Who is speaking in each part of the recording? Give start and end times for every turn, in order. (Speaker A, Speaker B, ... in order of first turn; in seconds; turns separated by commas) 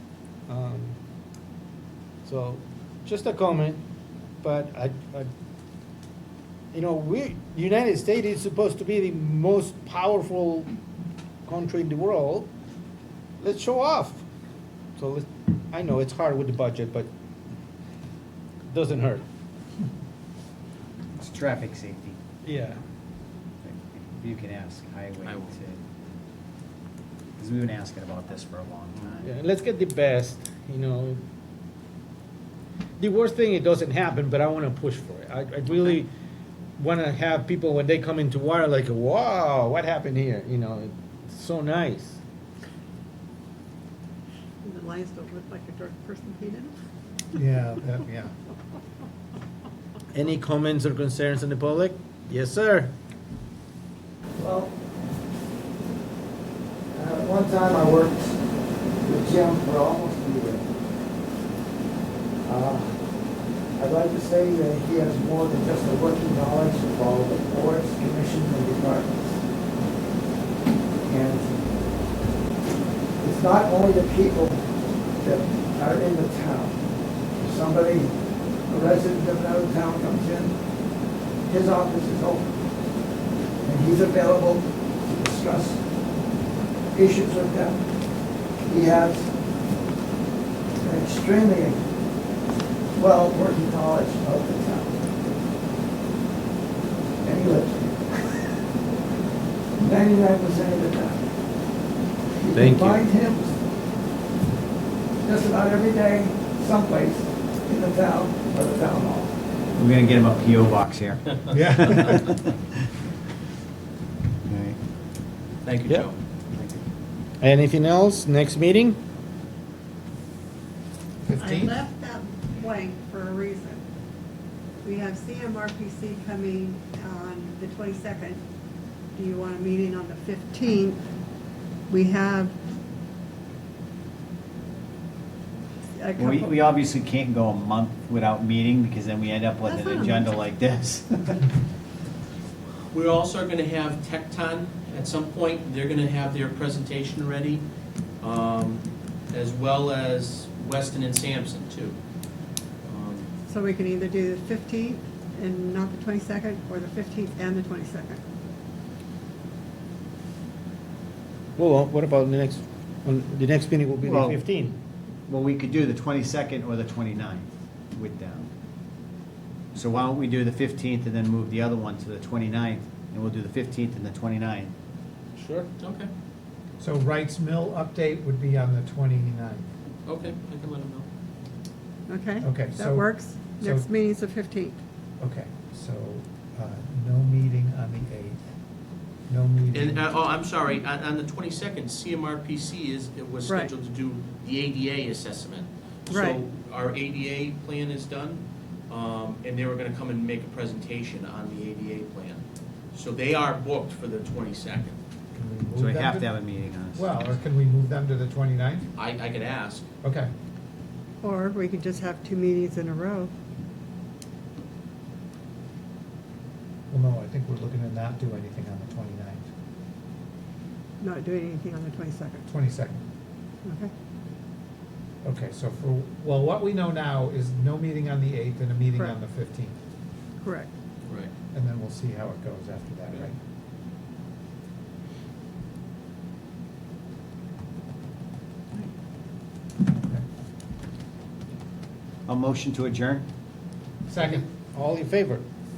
Speaker A: 0.5-1.0, Speaker A: 2.2-3.8, Speaker A: 4.4-5.3, Speaker A: 6.7-10.7, Speaker A: 11.4-12.5, Speaker A: 13.4-14.2, Speaker A: 15.0-17.1, Speaker A: 18.7-19.2, Speaker B: 21.2-22.2, Speaker A: 22.4-22.8, Speaker B: 23.6-25.8, Speaker C: 25.2-25.5, Speaker B: 27.4-29.3, Speaker A: 29.2-31.2, Speaker A: 33.0-36.1, Speaker A: 36.8-42.2, Speaker D: 44.6-46.7, Speaker E: 47.3-48.3, Speaker A: 50.1-52.9, Speaker F: 54.4-54.7, Speaker F: 56.9-58.4, Speaker F: 59.0-60.6, Speaker F: 62.4-63.0, Speaker F: 63.8-69.4, Speaker F: 71.0-71.5, Speaker F: 73.2-74.6, Speaker F: 75.2-76.8, Speaker F: 77.4-78.1, Speaker F: 78.7-80.5, Speaker F: 81.5-82.5, Speaker F: 83.6-85.8, Speaker F: 86.9-87.8, Speaker F: 88.6-89.3, Speaker F: 90.8-91.8, Speaker F: 92.9-95.0, Speaker F: 97.2-98.5, Speaker F: 99.8-101.2, Speaker F: 102.4-103.5, Speaker A: 102.5-103.0, Speaker F: 105.2-109.3, Speaker B: 109.8-112.5, Speaker E: 111.5-112.3, Speaker B: 114.5-114.8, Speaker C: 115.6-116.1, Speaker B: 116.5-116.8, Speaker A: 117.4-119.0, Speaker E: 121.2-121.8, Speaker D: 121.3-123.8, Speaker D: 124.8-128.4, Speaker D: 129.1-131.0, Speaker D: 131.9-132.5, Speaker D: 136.0-136.5, Speaker B: 136.2-141.5, Speaker D: 139.6-140.2, Speaker C: 142.9-147.6, Speaker C: 148.2-152.0, Speaker C: 152.8-153.3, Speaker D: 153.5-158.2, Speaker A: 161.6-164.8, Speaker B: 164.0-164.4, Speaker B: 165.3-168.5, Speaker B: 169.7-174.7, Speaker A: 175.3-175.7, Speaker C: 175.8-176.1, Speaker E: 176.8-179.7, Speaker C: 180.1-181.1, Speaker D: 182.1-184.8, Speaker E: 182.4-183.9, Speaker E: 185.2-188.4, Speaker E: 189.3-190.0, Speaker C: 189.7-205.0, Speaker D: 193.4-193.7, Speaker D: 196.1-196.4, Speaker E: 205.3-206.3, Speaker B: 205.7-207.1, Speaker E: 206.9-208.9, Speaker C: 209.0-209.8, Speaker E: 210.0-210.3, Speaker D: 211.2-213.3, Speaker E: 216.9-219.5, Speaker D: 221.0-222.5, Speaker E: 222.5-223.0, Speaker D: 223.6-223.9, Speaker E: 225.2-229.8, Speaker D: 230.4-230.7, Speaker C: 231.1-231.3, Speaker E: 231.5-233.4, Speaker E: 239.9-240.2, Speaker B: 242.3-243.2, Speaker E: 244.1-244.4, Speaker A: 244.2-245.4